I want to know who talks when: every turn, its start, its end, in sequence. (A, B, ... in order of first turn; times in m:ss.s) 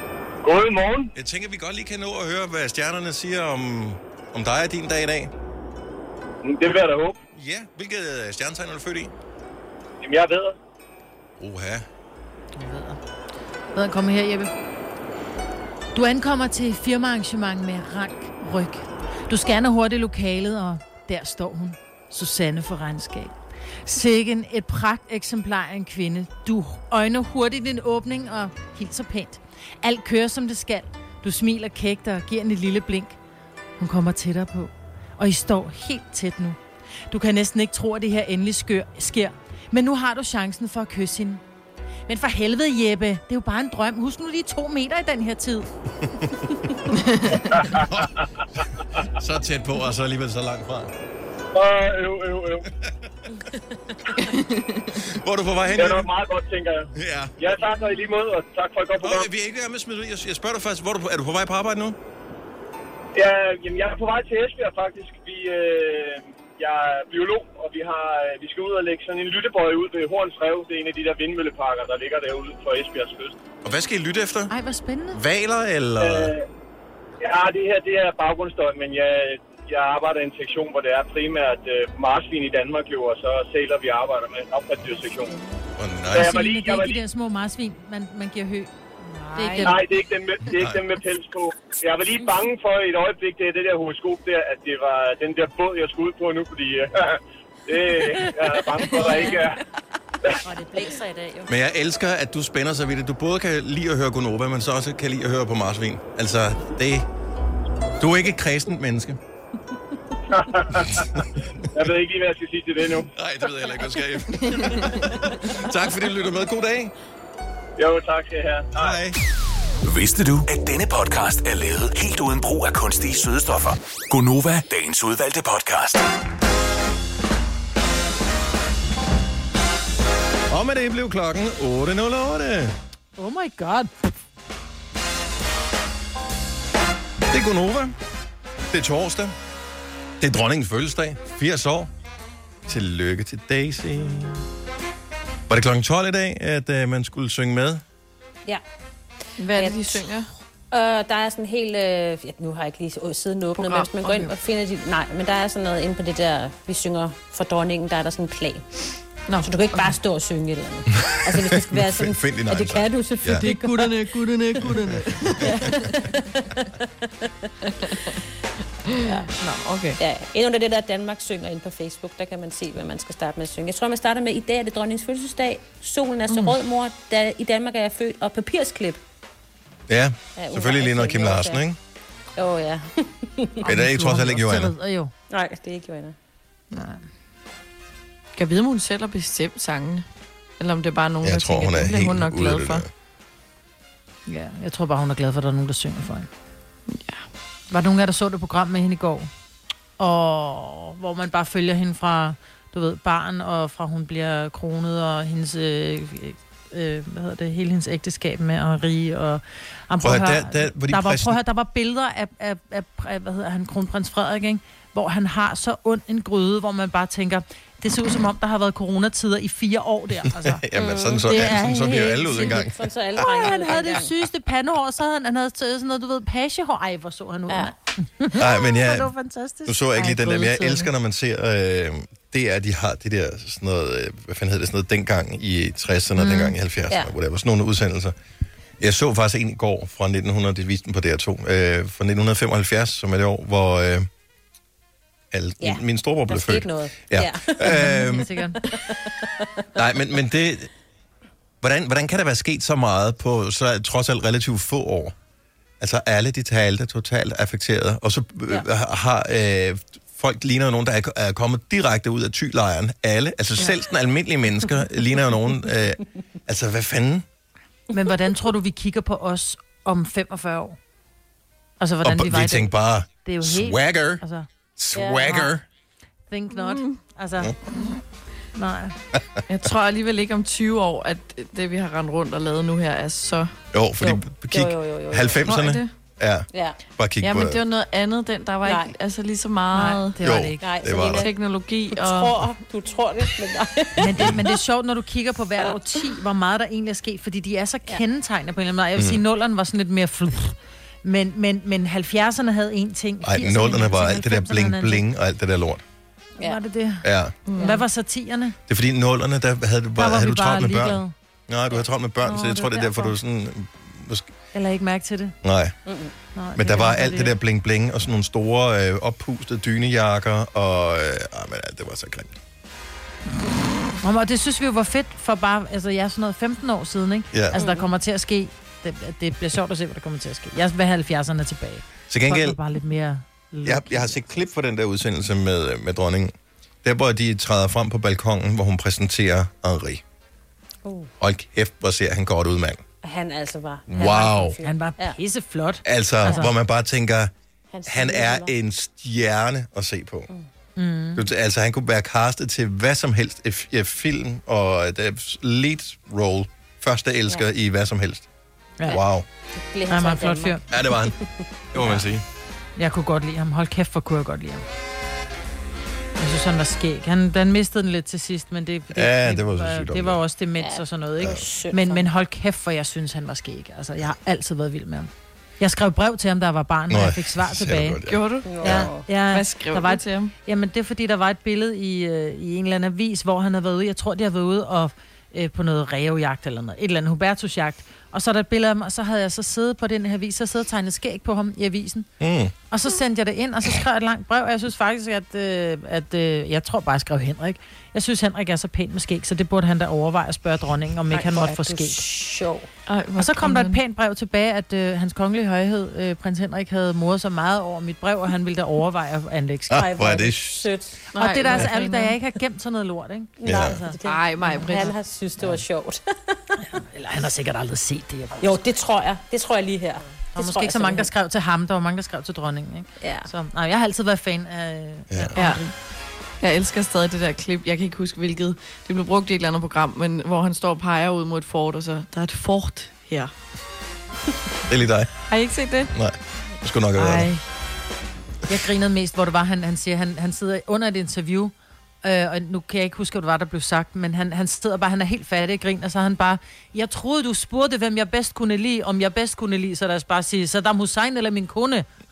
0:00.4-0:01.1 A
0:01.1-0:05.3 B
0:06.4-0:07.2 A
0:07.3-0:09.1 B
0:10.0-0:10.6 A
0:11.4-0:11.8 B
0:12.5-0:13.0 C
0:13.7-0:14.5 C
0:15.9-0:23.3 C
0:23.8-0:33.2 C
0:33.8-0:36.6 C
0:37.1-0:41.4 C
0:42.1-0:45.7 C
0:46.9-0:47.6 D
0:47.7-0:48.2 B
0:49.1-0:50.9 B
0:51.5-0:52.6 A
0:54.2-0:55.0 D
0:55.1-0:56.1 B
0:55.7-0:59.3 A
0:56.9-0:57.4 B
0:59.0-1:02.0 B
1:03.1-1:13.4 A
1:13.6-1:14.5 B
1:14.5-1:15.2 C
1:15.1-1:16.3 B
1:16.0-1:16.4 A
1:17.2-1:25.4 A
1:25.8-1:26.4 B
1:26.1-1:28.7 C
1:26.1-1:27.0 A
1:29.1-1:29.8 D
1:29.3-1:29.8 C
1:29.6-1:39.6 A
1:30.5-1:30.8 B
1:38.8-1:39.5 E
1:40.4-1:41.5 E
1:41.5-1:47.0 B
1:48.0-1:49.2 B
1:50.3-1:51.2 A
1:50.9-1:51.2 B
1:51.7-1:53.1 A
1:53.1-1:56.9 B
1:54.3-1:55.1 D
1:57.8-1:59.0 A
1:58.7-1:59.2 B
1:59.8-2:06.0 F
2:10.5-2:12.7 B
2:13.2-2:13.9 C
2:17.3-2:17.9 B
2:18.7-2:19.3 B
2:20.2-2:21.9 B
2:22.7-2:24.4 B
2:25.5-2:27.8 B
2:29.4-2:30.3 D
2:29.5-2:30.1 E
2:30.7-2:38.8 E
2:33.5-2:34.3 D
2:39.3-2:40.0 D
2:39.4-2:43.9 E
2:41.0-2:43.4 B
2:43.3-2:46.1 D
2:45.9-2:46.2 E
2:48.9-2:50.0 D
2:49.0-2:49.3 E
2:50.0-2:59.0 E
2:56.3-2:56.6 D
2:59.9-3:01.8 B
3:00.4-3:01.6 E
3:02.4-3:03.6 E
3:03.6-3:05.1 C
3:03.6-3:04.7 B
3:05.3-3:06.1 E
3:06.7-3:07.0 C
3:08.4-3:10.0 D
3:10.6-3:12.8 D
3:11.2-3:12.9 B
3:14.3-3:16.3 C
3:16.9-3:17.2 D
3:17.7-3:19.3 C
3:20.0-3:40.6 C
3:30.0-3:31.4 B
3:40.2-3:42.7 B
3:40.7-3:44.1 E
3:41.2-3:50.9 C
3:47.5-3:47.7 E
3:48.4-3:49.1 B
3:49.6-3:58.1 B
3:56.2-3:56.5 C
3:58.8-4:04.1 B
4:05.3-4:08.3 B
4:05.6-4:09.5 E
4:07.6-4:08.6 C
4:09.8-4:10.7 B
4:11.6-4:15.1 B
4:15.8-4:27.2 B
4:27.9-4:30.8 C
4:31.8-4:34.5 C
4:32.0-4:34.2 B
4:34.8-4:35.6 B
4:34.9-4:35.5 E
4:35.2-4:35.5 C
4:36.3-4:37.8 C
4:36.5-4:37.0 D
4:38.5-4:39.0 C
4:39.5-4:43.5 D
4:43.7-4:47.6 B
4:44.0-4:45.4 E
4:45.4-4:45.9 D
4:46.5-4:46.8 E
4:47.2-4:50.2 D
4:48.6-4:48.9 E
4:49.7-4:50.6 C
4:50.2-4:51.3 B
4:50.6-4:51.3 E
4:51.0-4:52.4 D
4:51.9-4:54.4 E
4:54.0-5:05.0 C
4:55.6-4:56.1 E
4:59.0-4:59.2 B
5:03.2-5:05.8 B
5:06.4-5:08.6 C
5:07.0-5:07.3 B
5:07.4-5:07.8 D
5:07.6-5:07.8 E
5:08.7-5:14.3 B
5:10.0-5:11.1 C
5:12.2-5:13.1 C
5:14.5-5:15.3 C
5:15.4-5:15.7 B
5:15.8-5:16.1 E
5:16.3-5:17.4 C
5:16.6-5:22.4 B
5:24.0-5:34.2 C
5:27.3-5:27.6 B
5:27.5-5:27.9 E
5:32.1-5:32.6 B
5:33.6-5:40.0 B
5:40.8-5:41.1 E
5:41.2-5:42.8 B
5:43.0-5:45.2 E
5:43.9-5:44.6 B
5:44.0-5:46.5 C
5:45.8-5:47.3 B
5:46.2-5:46.5 E
5:47.7-5:48.5 E
5:47.9-5:50.3 B
5:50.8-5:51.2 C
5:51.2-5:58.3 B
5:58.9-5:59.2 B
5:59.5-6:02.0 E
5:59.9-6:00.6 C
6:00.7-6:01.1 B
6:01.7-6:02.2 B
6:02.8-6:04.6 C
6:06.2-6:18.0 C
6:08.9-6:10.2 B
6:10.6-6:12.1 E
6:16.9-6:18.9 B
6:18.1-6:20.3 D
6:18.4-6:19.1 E
6:18.6-6:32.1 C
6:32.2-6:32.5 B
6:32.7-6:42.0 C
6:41.1-6:42.7 E
6:42.9-6:43.8 D
6:43.2-6:50.0 C
6:49.7-6:50.6 B
6:49.7-6:51.0 E
6:51.1-6:52.2 D
6:51.2-6:54.0 C
6:53.4-6:56.6 E
6:53.4-6:53.8 B
6:54.0-6:54.9 D
6:56.6-6:58.5 C
6:58.4-7:01.1 E
7:00.3-7:05.7 C
7:03.0-7:03.3 E
7:05.1-7:05.4 B
7:05.4-7:05.6 D
7:06.4-7:13.3 D
7:14.7-7:15.1 B
7:15.3-7:15.9 D
7:15.9-7:17.3 B
7:17.0-7:17.4 D
7:18.5-7:31.9 C